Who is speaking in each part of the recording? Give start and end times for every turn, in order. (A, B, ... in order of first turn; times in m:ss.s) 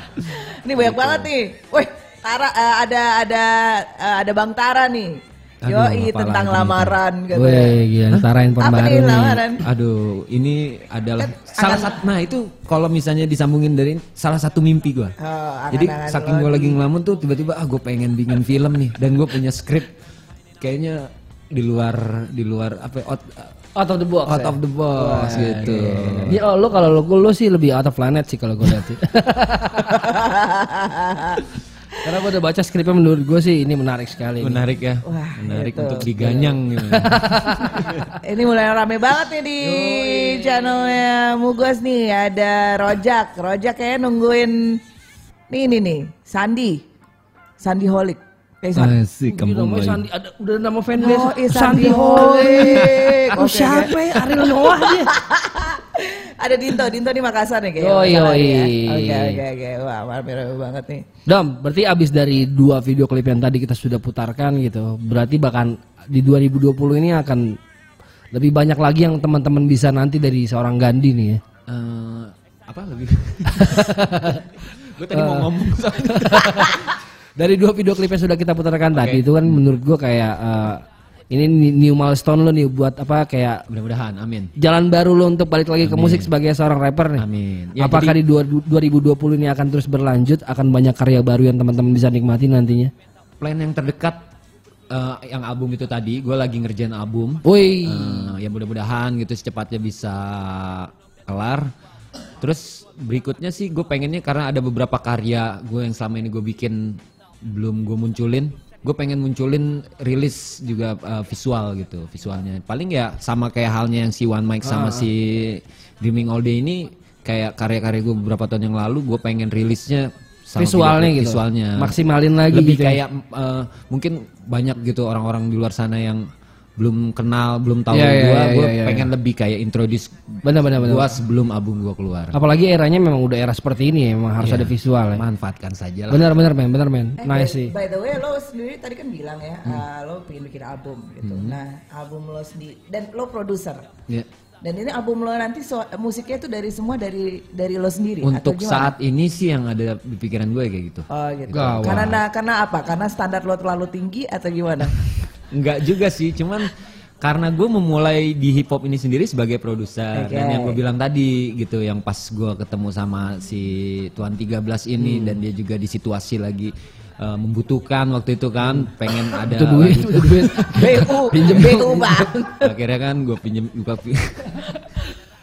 0:00.3-0:07.7 A
0:00.7-0:01.3 B
0:05.6-0:09.4 C
0:08.6-0:09.6 A
0:09.6-0:15.1 B
0:11.2-0:11.9 A
0:15.2-0:16.8 A
0:15.7-0:19.9 B
0:20.6-0:23.5 B
0:23.8-0:30.1 C
0:24.2-0:26.4 B
0:30.0-0:31.4 A
0:32.0-0:34.6 C
0:34.4-0:38.0 B
0:35.0-0:36.1 A
0:36.2-0:37.8 C
0:38.2-0:44.6 A
0:39.6-0:41.0 C
0:45.5-0:46.8 A
0:47.6-0:48.9 A
0:48.8-0:50.0 B
0:49.3-0:55.1 C
0:51.0-1:01.0 A
0:57.8-0:59.4 C
1:01.3-1:07.6 C
1:08.3-1:11.4 C
1:11.7-1:14.3 B
1:13.5-1:14.4 C
1:14.8-1:16.7 B
1:15.1-1:15.5 C
1:16.0-1:16.8 C
1:17.4-1:23.6 C
1:18.9-1:19.6 B
1:23.7-1:24.5 B
1:24.6-1:27.2 C
1:25.8-1:26.3 B
1:27.2-1:28.2 B
1:27.8-1:32.9 C
1:33.4-1:34.2 B
1:34.9-1:41.7 B
1:37.4-1:38.3 C
1:42.4-2:01.9 B
1:54.6-1:55.0 C
2:00.6-2:03.0 C
2:02.5-2:06.2 B
2:06.8-2:12.4 B
2:07.9-2:09.1 C
2:10.4-2:11.1 C
2:12.3-2:15.2 C
2:14.4-2:16.3 B
2:16.1-2:17.7 C
2:17.2-2:23.9 A
2:21.2-2:21.6 B
2:24.6-2:28.9 A
2:28.2-2:32.2 B
2:31.1-2:35.0 A
2:31.5-2:32.1 C
2:35.5-2:51.0 B
2:40.2-2:40.8 A
2:49.4-2:52.3 C
2:50.7-2:52.7 A
2:52.6-2:54.6 B